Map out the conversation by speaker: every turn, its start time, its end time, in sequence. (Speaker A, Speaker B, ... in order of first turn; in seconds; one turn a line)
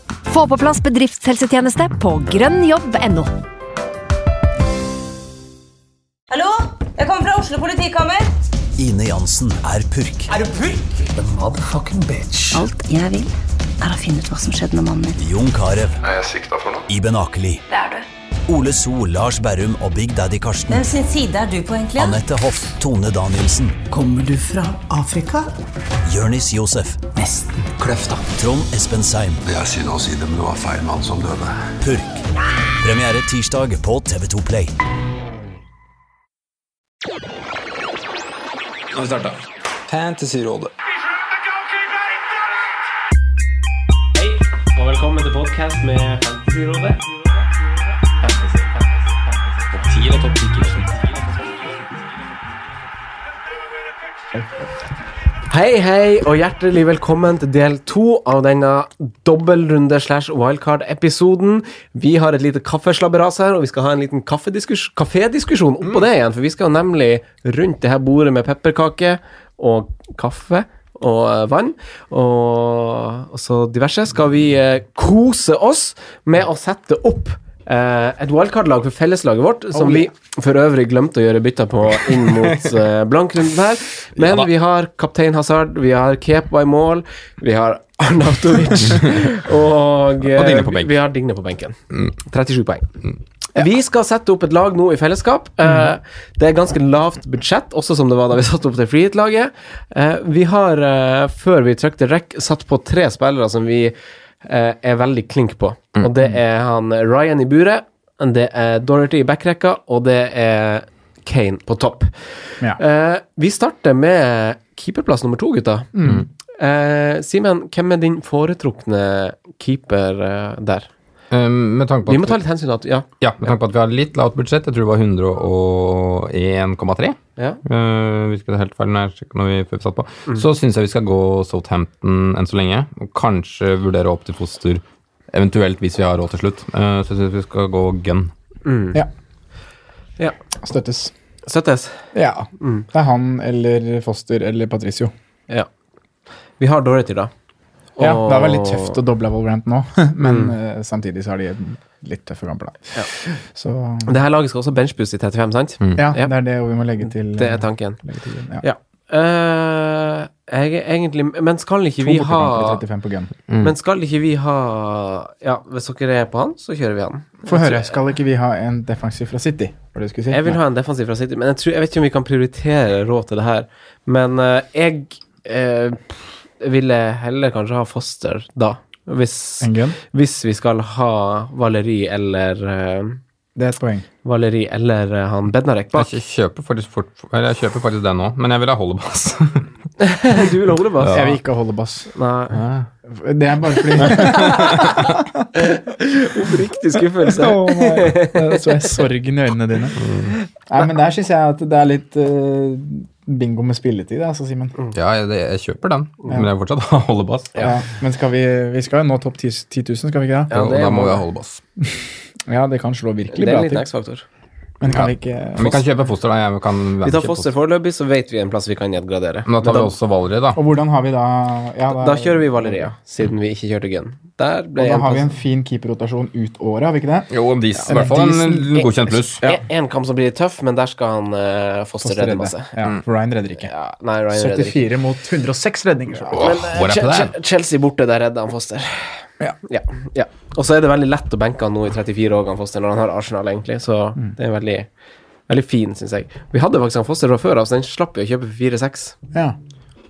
Speaker A: 0.3-3.3
Speaker B: 6.3-8.3
Speaker C: 8.8-10.3
Speaker D: 10.3-12.7
Speaker E: 12.5-15.2
Speaker C: 15.2-16.0
Speaker F: 16.0-16.9
Speaker C: 16.9-17.6
Speaker C: 18.5-20.9
Speaker B: 20.7-22.2
Speaker C: 21.9-23.8
Speaker D: 23.9-25.5
Speaker C: 26.0-27.1
Speaker D: 27.1-28.3
Speaker C: 28.3-29.5
Speaker F: 29.4-31.7
Speaker C: 31.8-32.2
Speaker C: 32.8-34.7
Speaker G: 39.0-39.2
Speaker G: 39.9-40.7
Speaker H: 44.1-47.1
Speaker G: 49.9-50.7
Speaker H: 50.5-51.8
Speaker H: 55.5-92.9
Speaker I: 79.7-80.1
Speaker G: 82.2-82.7
Speaker G: 84.2-84.5
Speaker G: 90.2-91.0
Speaker H: 93.5-115.9
Speaker I: 115.9-116.3
Speaker H: 116.6-120.9
Speaker G: 121.3-122.4
Speaker H: 122.1-123.5
Speaker G: 123.2-138.3
Speaker H: 138.6-139.0
Speaker I: 140.6-141.1
Speaker H: 141.4-142.9
Speaker I: 142.1-145.1
Speaker H: 146.6-147.3
Speaker H: 148.0-149.0
Speaker I: 148.0-154.1
Speaker H: 150.2-150.5
Speaker H: 154.1-156.3
Speaker I: 155.9-158.6
Speaker H: 157.3-158.0
Speaker H: 158.6-162.8
Speaker I: 162.0-163.3
Speaker G: 163.5-163.7
Speaker H: 163.6-167.9
Speaker I: 167.4-170.6
Speaker H: 170.3-183.2
Speaker I: 179.6-180.0
Speaker I: 183.6-184.1
Speaker H: 184.2-186.1
Speaker G: 185.9-189.7
Speaker H: 190.0-191.2
Speaker G: 191.0-191.3
Speaker I: 191.1-192.1
Speaker H: 192.1-192.6
Speaker G: 192.5-192.9
Speaker I: 193.1-200.0
Speaker H: 194.1-194.9
Speaker G: 194.2-195.0
Speaker H: 195.6-198.8
Speaker G: 200.0-200.3
Speaker I: 200.7-204.8
Speaker G: 204.9-207.7
Speaker I: 207.6-211.2
Speaker H: 210.5-211.2
Speaker G: 210.5-211.6
Speaker I: 211.8-213.9
Speaker H: 213.3-214.2
Speaker I: 214.8-215.8
Speaker G: 214.9-217.5
Speaker H: 217.0-219.9
Speaker G: 219.5-220.6
Speaker I: 220.5-222.9
Speaker H: 221.9-225.3
Speaker I: 224.8-229.6
Speaker G: 227.3-229.4
Speaker H: 229.4-232.7
Speaker I: 232.0-233.7
Speaker H: 233.6-234.8
Speaker I: 234.3-236.5
Speaker H: 236.3-244.9
Speaker G: 236.3-237.3
Speaker H: 245.5-249.2